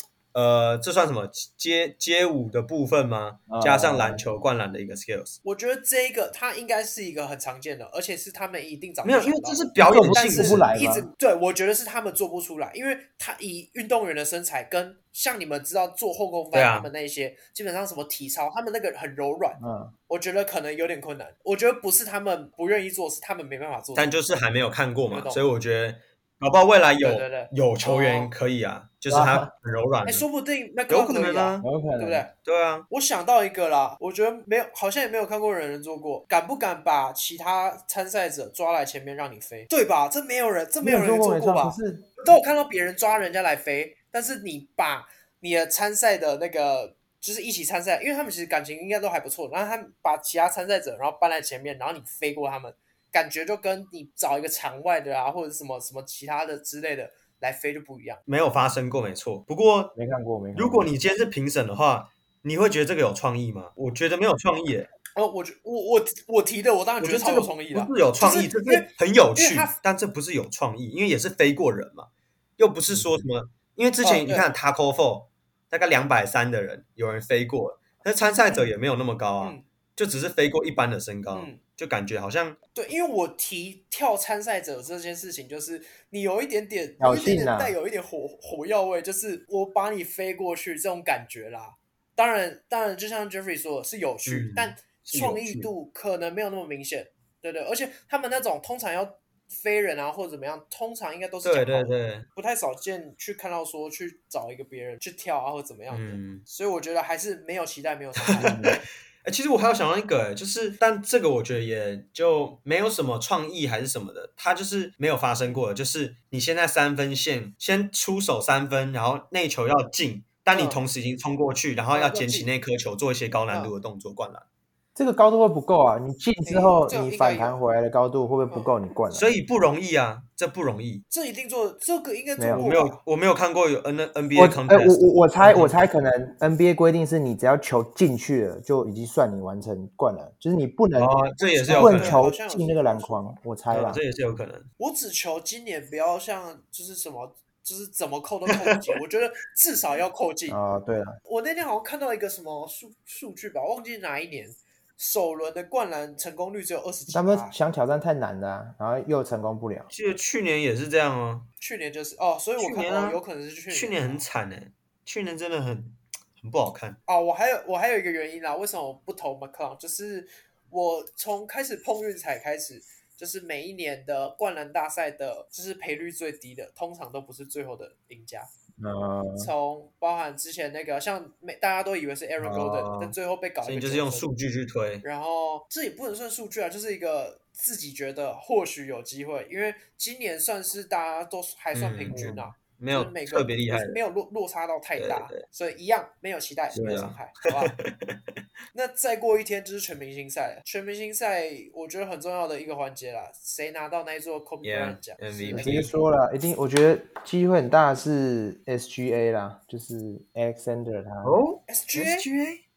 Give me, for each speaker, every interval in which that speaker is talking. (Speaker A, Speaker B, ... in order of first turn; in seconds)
Speaker A: 0.3-5.4, 9.0-10.6, 16.5-16.9, 23.9-30.2, 30.9-31.6, 32.4-32.9, 58.3-59.9, 60.5-64.9, 67.0-82.6, 94.2-95.7, 101.4-102.3, 105.9-106.4, 108.3-124.4, 129.1-131.0, 132.5-135.8, 141.0-142.2, 143.7-144.7, 159.9-161.5, 162.6-167.0, 182.4-185.0, 191.7-194.0, 195.0-195.4, 196.7-198.2, 204.6-205.9, 211.2-212.6
Speaker B: 3.5-4.2, 9.9-11.1, 19.6-19.9, 29.1-29.5, 31.6-32.2, 40.8-42.1, 59.9-60.9, 87.0-87.7, 108.4-108.8, 124.9-129.3, 132.4-132.7, 134.3-141.1, 141.7-144.0, 150.5-151.2, 157.1-159.9, 178.8-179.5, 192.1-192.4, 196.8-197.0, 205.5-211.4
Speaker C: 5.4-24.1, 25.1-25.4, 27.0-28.3, 30.0-32.3, 32.9-58.2, 65.1-69.8, 74.0-74.5, 81.3-81.6, 82.7-108.8, 120.5-120.8, 121.9-122.5, 126.4-127.6, 131.1-133.0, 141.3-143.2, 144.8-150.6, 151.2-157.5, 161.6-164.2, 167.1-178.5, 179.3-184.3, 185.0-197.7, 198.7-205.9, 211.7-212.3